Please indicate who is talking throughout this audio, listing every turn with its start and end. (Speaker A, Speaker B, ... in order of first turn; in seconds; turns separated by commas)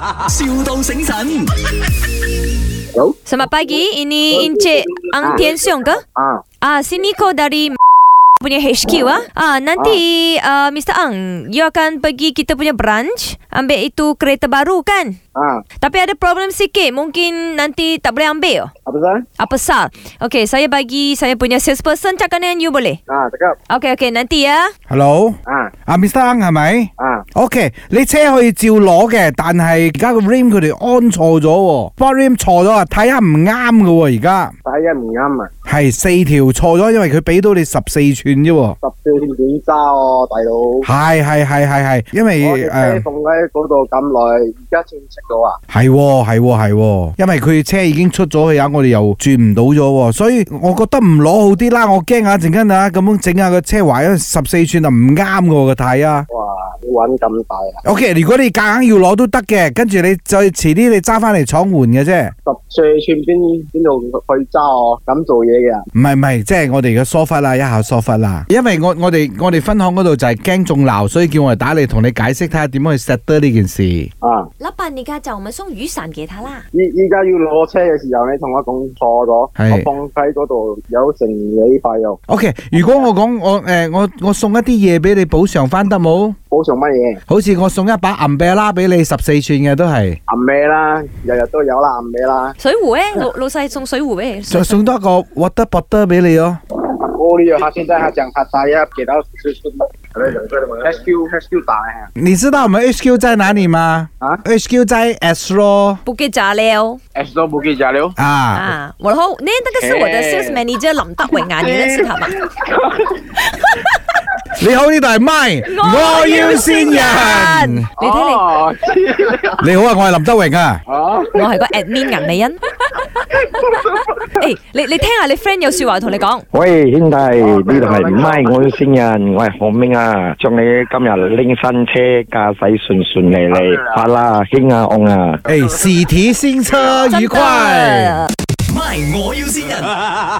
Speaker A: 0.3-1.5, Speaker B: 3.3-6.0, Speaker C: 4.3-6.4, Speaker B: 6.6-7.8, Speaker B: 8.4-15.2, Speaker C: 15.3-15.6, Speaker B: 15.8-18.7, Speaker C: 18.9-19.3, Speaker B: 19.4-23.0, Speaker C: 23.1-23.6, Speaker B: 23.7-24.7, Speaker D: 24.9-34.5, Speaker C: 25.5-25.7, Speaker C: 27.0-27.3, Speaker C: 34.6-35.5, Speaker D: 35.7-38.8, Speaker C: 38.8-40.9, Speaker D: 40.8-43.0, Speaker C: 42.4-45.6, Speaker D: 45.7-56.3, Speaker C: 56.3-57.8, Speaker D: 57.9-62.3, Speaker C: 62.5-65.8, Speaker D: 65.9-74.1, Speaker C: 74.2-74.5, Speaker B: 74.6-76.6, Speaker C: 76.7-82.2, Speaker D: 79.6-79.9, Speaker D: 82.3-86.4, Speaker C: 82.7-83.1, Speaker C: 86.5-87.2, Speaker D: 87.3-90.2, Speaker C: 90.3-92.5, Speaker B: 92.6-94.9, Speaker D: 94.5-96.6, Speaker C: 96.8-102.1, Speaker D: 102.2-106.0, Speaker B: 106.0-107.0, Speaker C: 107.2-108.2, Speaker D: 108.2-108.7, Speaker B: 108.5-112.4, Speaker C: 109.8-110.6, Speaker C: 111.4-113.2, Speaker D: 114.5-117.9, Speaker B: 115.7-118.5, Speaker C: 118.0-119.6, Speaker D: 119.6-120.8, Speaker C: 120.9-121.5, Speaker B: 121.3-126.5, Speaker E: 126.5-135.4, Speaker C: 127.4-128.8, Speaker C: 133.5-134.0, Speaker D: 135.5-138.3, Speaker B: 137.1-138.3, Speaker A: 138.7-140.0